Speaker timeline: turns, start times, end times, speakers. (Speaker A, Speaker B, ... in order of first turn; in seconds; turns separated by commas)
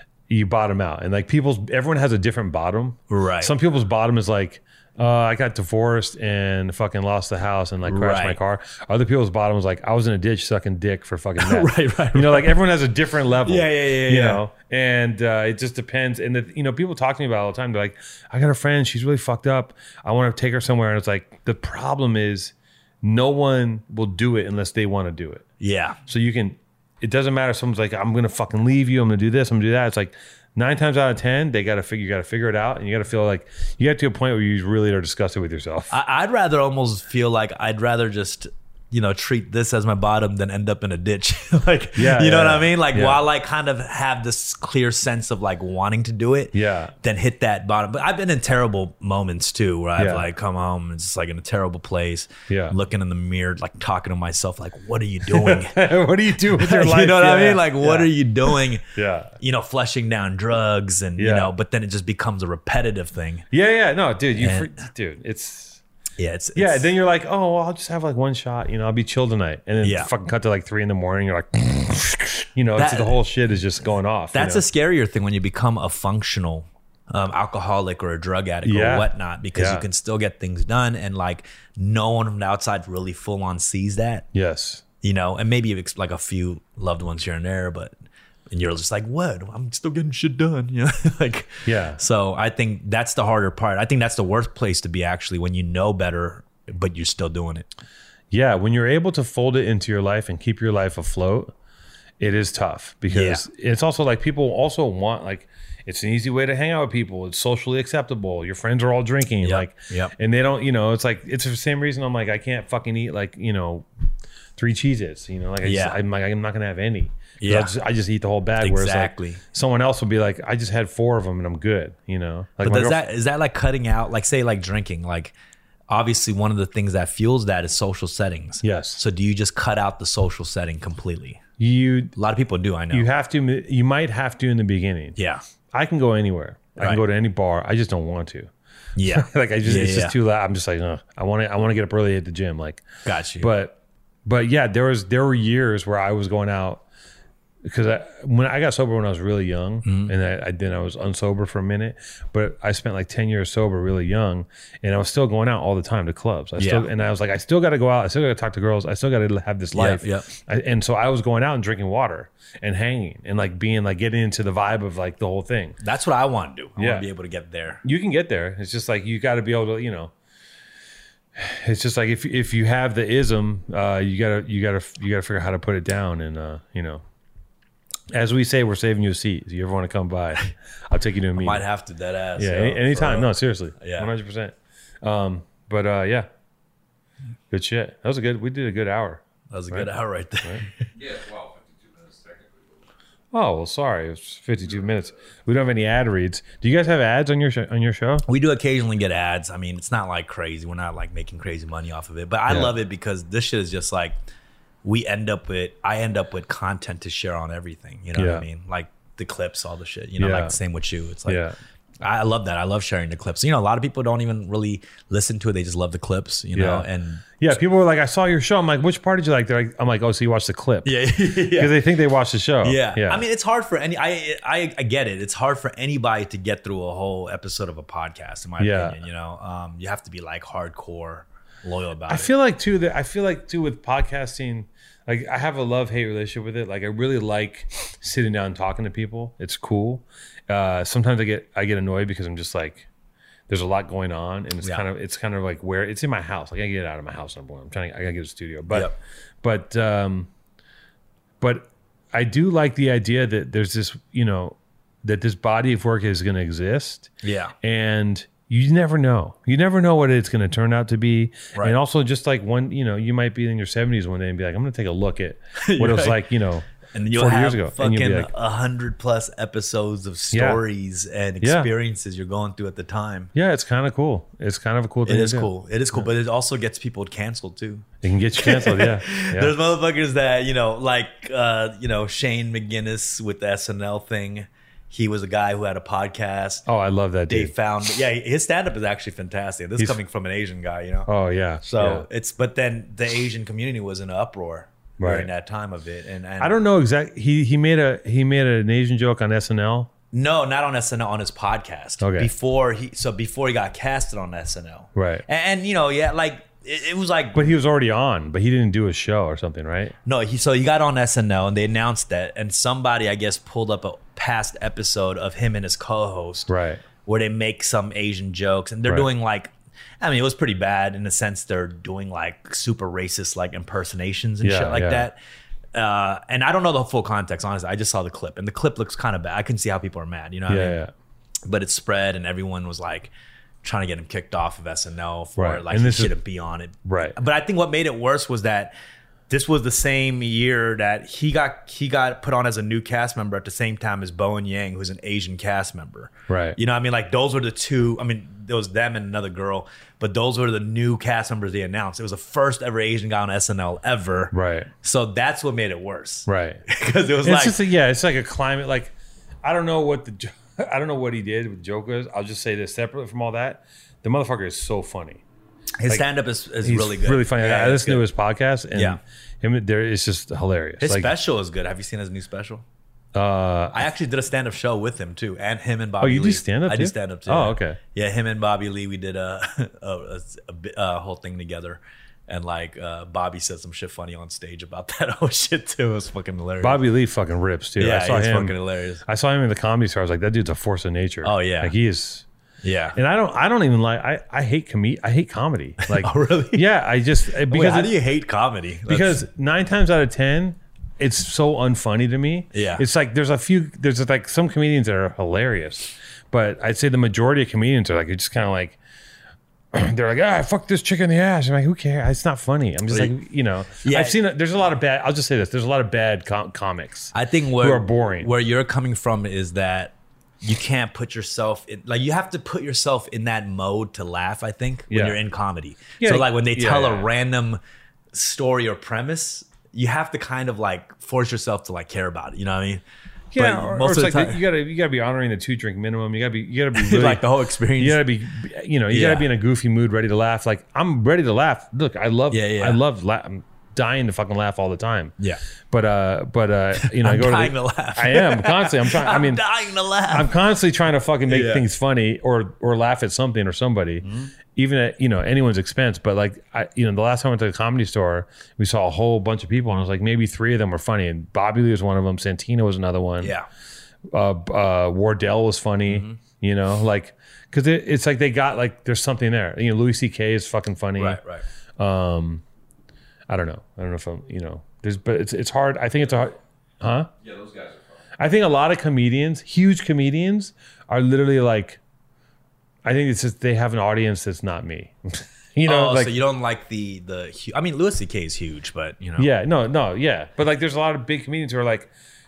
Speaker A: 0.3-25.4, Speaker B: 3.1-3.5, Speaker B: 7.8-8.4, Speaker B: 11.4-12.5, Speaker B: 13.4-14.4, Speaker B: 25.6-26.0, Speaker A: 26.1-35.9, Speaker B: 35.9-55.8, Speaker A: 42.0-43.2, Speaker A: 46.5-46.9, Speaker A: 50.0-50.3, Speaker A: 52.5-52.8, Speaker A: 55.2-59.3, Speaker B: 56.5-58.8, Speaker B: 59.4-63.5, Speaker A: 61.2-61.5, Speaker A: 63.5-65.8, Speaker B: 64.4-64.7, Speaker B: 66.2-66.9, Speaker A: 66.5-74.6, Speaker B: 69.8-70.1, Speaker B: 72.8-73.1, Speaker B: 74.3-84.2, Speaker A: 78.6-79.8, Speaker A: 84.3-84.8, Speaker B: 85.0-87.9, Speaker B: 88.5-97.7, Speaker A: 91.6-92.0, Speaker A: 98.3-101.5, Speaker A: 102.2-113.9, Speaker B: 103.1-103.4, Speaker B: 109.4-110.1, Speaker A: 114.6-123.0, Speaker B: 115.6-116.0, Speaker B: 117.4-117.7, Speaker B: 118.6-119.4, Speaker B: 122.6-125.3, Speaker B: 125.9-131.4, Speaker A: 128.6-129.0, Speaker A: 131.6-132.1, Speaker B: 132.2-133.1, Speaker A: 132.9-135.2, Speaker B: 135.2-135.4, Speaker A: 135.7-138.5, Speaker B: 138.9-140.1, Speaker A: 139.0-142.8, Speaker B: 143.0-143.5, Speaker A: 143.4-146.8, Speaker A: 147.6-165.8, Speaker B: 149.8-150.1, Speaker B: 156.6-156.9, Speaker B: 159.7-160.3, Speaker B: 165.8-167.8, Speaker A: 166.8-167.1, Speaker A: 167.8-170.1, Speaker A: 171.3-177.0, Speaker A: 178.1-181.6, Speaker B: 181.4-184.1, Speaker A: 182.4-186.3, Speaker A: 187.5-189.9, Speaker B: 189.5-190.9, Speaker C: 190.9-192.9, Speaker A: 193.3-198.2, Speaker B: 198.2-204.2, Speaker A: 202.5-202.7, Speaker B: 204.8-211.4, Speaker A: 208.2-208.4, Speaker A: 210.2-210.6, Speaker A: 211.3-211.5, Speaker B: 212.0-217.4, Speaker A: 216.5-216.8, Speaker A: 217.4-220.9, Speaker B: 220.8-221.8, Speaker A: 221.5-223.2, Speaker B: 222.6-232.3, Speaker A: 228.6-229.0, Speaker A: 232.1-242.9, Speaker A: 243.5-250.3, Speaker A: 251.4-268.3, Speaker B: 257.2-257.5, Speaker B: 265.6-266.2, Speaker B: 266.9-273.3, Speaker A: 270.3-270.6, Speaker A: 271.4-271.7, Speaker A: 273.3-276.1, Speaker B: 275.1-277.9, Speaker A: 278.0-279.5, Speaker B: 278.4-286.6, Speaker A: 286.6-287.5, Speaker B: 287.3-291.1, Speaker A: 291.1-292.1, Speaker B: 291.6-296.6, Speaker A: 295.0-295.3, Speaker A: 296.4-299.9, Speaker B: 300.1-307.4, Speaker A: 302.0-302.3, Speaker A: 304.9-305.2, Speaker A: 307.3-309.9, Speaker B: 310.0-316.5, Speaker A: 316.5-316.8, Speaker B: 317.0-325.2, Speaker A: 324.4-325.0, Speaker B: 325.7-330.8, Speaker A: 330.5-330.9, Speaker B: 331.5-333.1, Speaker B: 333.6-338.7, Speaker A: 335.4-336.1, Speaker A: 336.9-337.1, Speaker B: 339.3-357.6, Speaker A: 346.3-346.6, Speaker A: 354.3-354.7, Speaker A: 356.3-356.6, Speaker A: 357.2-365.2, Speaker B: 365.8-368.1, Speaker A: 366.6-371.1, Speaker B: 368.7-369.0, Speaker B: 370.8-372.6, Speaker A: 373.1-373.9, Speaker B: 373.7-386.8, Speaker A: 376.0-377.8, Speaker A: 386.6-392.2, Speaker B: 387.8-389.0, Speaker B: 391.2-391.7, Speaker B: 392.6-393.0, Speaker A: 392.9-397.9, Speaker B: 395.8-396.6, Speaker B: 397.3-399.2, Speaker A: 398.9-408.8, Speaker B: 402.5-402.8, Speaker A: 409.7-418.3, Speaker B: 413.8-414.2, Speaker B: 417.1-427.6, Speaker A: 424.9-425.2, Speaker A: 426.0-427.1, Speaker B: 428.1-432.8, Speaker A: 433.3-437.2, Speaker B: 433.3-434.4, Speaker B: 436.7-438.0, Speaker A: 437.8-445.1, Speaker B: 438.9-439.3, Speaker B: 442.3-442.8, Speaker A: 445.7-449.4, Speaker B: 446.7-450.3, Speaker A: 450.1-463.3, Speaker B: 451.3-451.6, Speaker B: 454.0-454.3, Speaker B: 463.2-463.5, Speaker A: 464.1-471.2, Speaker B: 465.9-466.2, Speaker B: 471.0-471.4, Speaker A: 471.8-472.4, Speaker A: 473.3-477.1, Speaker C: 477.2-478.1, Speaker A: 478.2-481.8, Speaker A: 482.8-486.1, Speaker B: 485.6-489.3, Speaker A: 489.2-491.9